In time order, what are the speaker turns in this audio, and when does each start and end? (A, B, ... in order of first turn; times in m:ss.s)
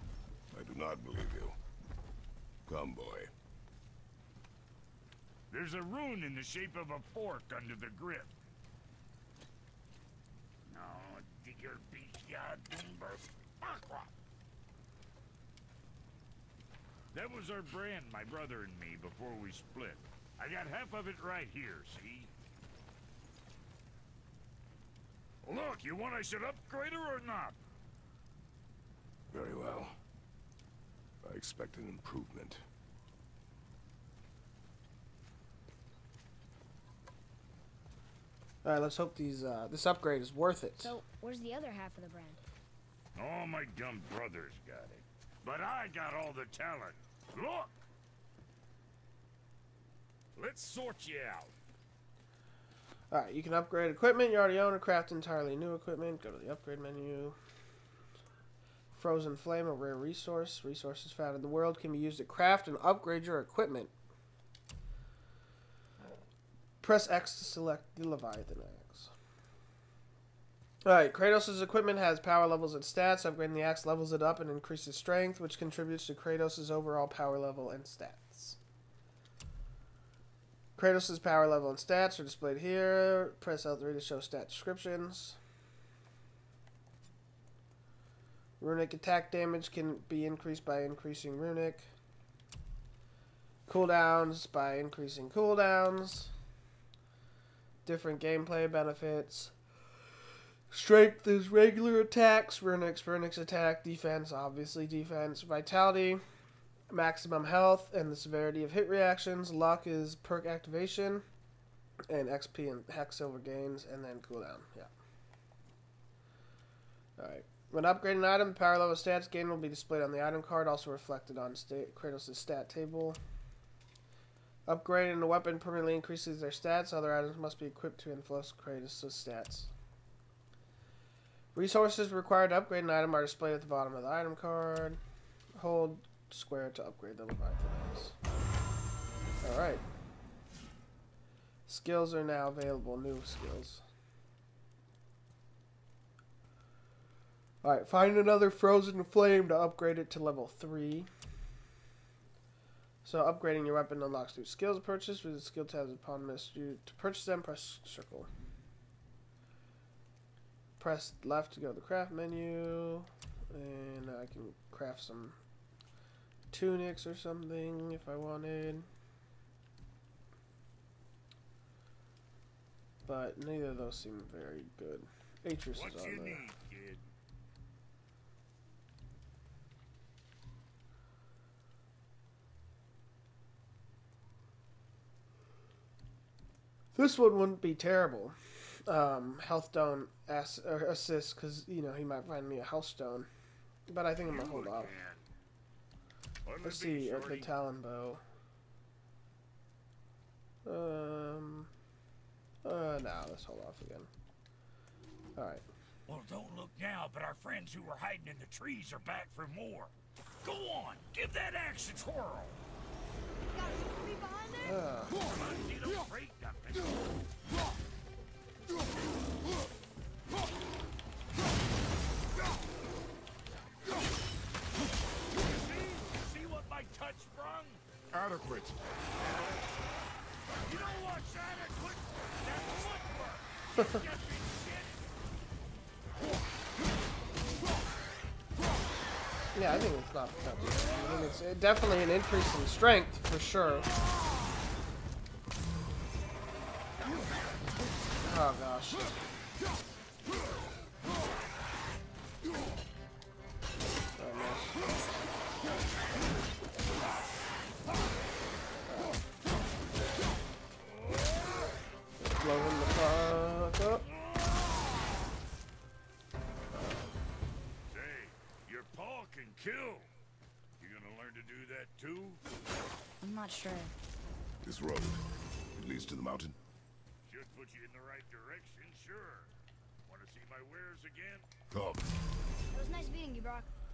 0:00.5-0:01.6 A
0:02.7-0:03.3 A
0:05.5-0:08.3 B
0:10.7-0:14.1 B
0:17.1-0:22.3 B
0:25.4-0:27.6 B
0:29.3-0:30.0 A
0:31.2-0:32.6 A
0:38.6-0:41.0 C
0:40.8-0:42.4 D
0:43.2-0:47.8 B
0:50.4-0:51.5 B
0:53.1-0:57.4 C
0:58.9-1:03.9 C
1:06.8-1:09.1 C
1:10.8-1:18.6 C
1:20.8-1:25.4 C
1:28.6-1:31.9 C
1:33.7-1:36.3 C
1:37.8-1:39.5 C
1:40.7-1:46.2 C
1:46.9-1:51.3 C
1:52.1-1:54.9 C
1:57.2-2:03.2 C
2:04.7-2:09.7 C
2:11.6-2:15.0 C
2:15.6-2:18.2 C
2:19.4-2:19.8 C
2:21.7-2:23.8 C
2:27.6-2:31.1 C
2:33.0-2:38.3 C
2:40.8-2:45.4 C
2:46.5-2:48.9 C
2:53.1-2:56.4 C
2:55.8-2:57.0 B
3:07.0-3:13.3 C
3:13.9-3:14.9 C
3:14.3-3:15.2 B
3:16.5-3:17.5 B
3:16.6-3:18.2 C
3:20.7-3:21.7 C
3:22.6-3:24.1 C
3:25.4-3:25.6 C
3:26.1-3:32.6 B
3:33.5-3:34.8 D
3:34.6-3:35.2 C
3:35.2-3:37.1 B
3:45.3-3:47.8 B
3:48.1-3:48.8 A
3:50.6-3:55.1 B
3:59.6-4:03.9 C
4:08.2-4:09.2 C
4:14.2-4:14.9 C
4:18.9-4:19.2 C
4:22.2-4:24.0 C
4:26.7-4:27.1 C
4:27.9-4:30.1 B
4:30.8-4:32.4 B
4:33.2-4:33.9 D
4:34.6-4:35.2 A
4:35.8-4:36.6 A
4:37.3-4:39.5 B
4:40.1-4:41.4 B
4:41.7-4:42.1 A
4:42.7-4:43.7 D